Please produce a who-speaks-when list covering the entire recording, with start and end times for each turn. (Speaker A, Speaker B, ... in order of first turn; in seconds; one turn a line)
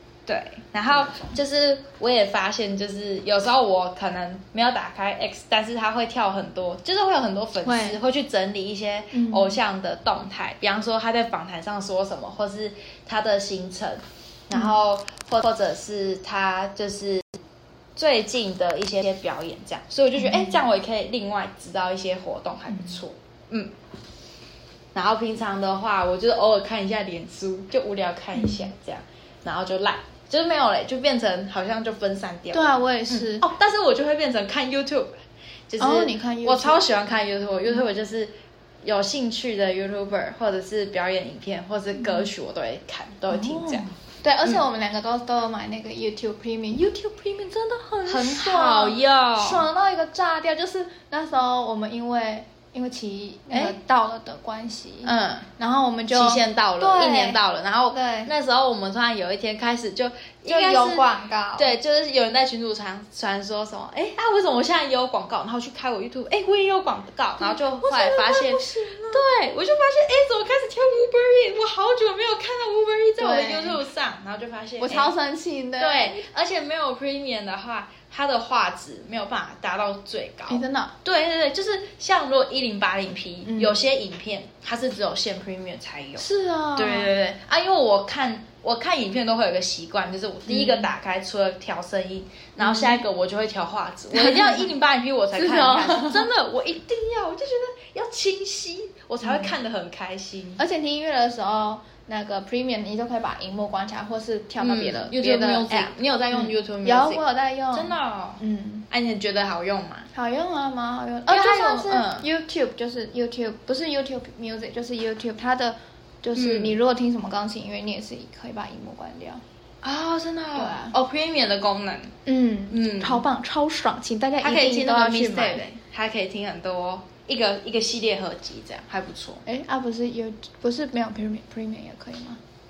Speaker A: 0.3-17.3
Speaker B: 0.9-1.4
Speaker B: 7.6-8.0
Speaker B: 9.1-9.6
Speaker A: 18.0-23.7
Speaker B: 20.2-20.6
Speaker A: 24.9-35.1
Speaker B: 28.4-28.7
Speaker B: 32.5-33.5
Speaker A: 35.7-38.3
Speaker B: 35.8-36.8
Speaker A: 38.8-43.9
Speaker B: 42.0-42.3
Speaker B: 43.3-58.3
Speaker A: 48.1-49.6
Speaker A: 53.5-53.8
Speaker A: 55.0-55.5
Speaker A: 56.1-75.1
Speaker B: 60.5-61.7
Speaker B: 67.4-69.3
Speaker B: 73.2-73.8
Speaker B: 74.8-76.3
Speaker A: 75.8-100.6
Speaker B: 80.5-80.9
Speaker B: 83.5-83.8
Speaker B: 86.2-87.1
Speaker B: 90.5-90.9
Speaker B: 92.6-93.0
Speaker B: 94.1-94.7
Speaker B: 95.3-96.3
Speaker B: 99.2-99.5
Speaker B: 100.6-108.9
Speaker A: 104.6-110.1
Speaker B: 110.1-119.4
Speaker A: 111.3-112.3
Speaker A: 116.4-116.8
Speaker A: 119.8-122.1
Speaker B: 120.5-121.0
Speaker B: 122.3-125.7
Speaker A: 122.7-123.2
Speaker A: 124.4-129.4
Speaker B: 129.4-132.4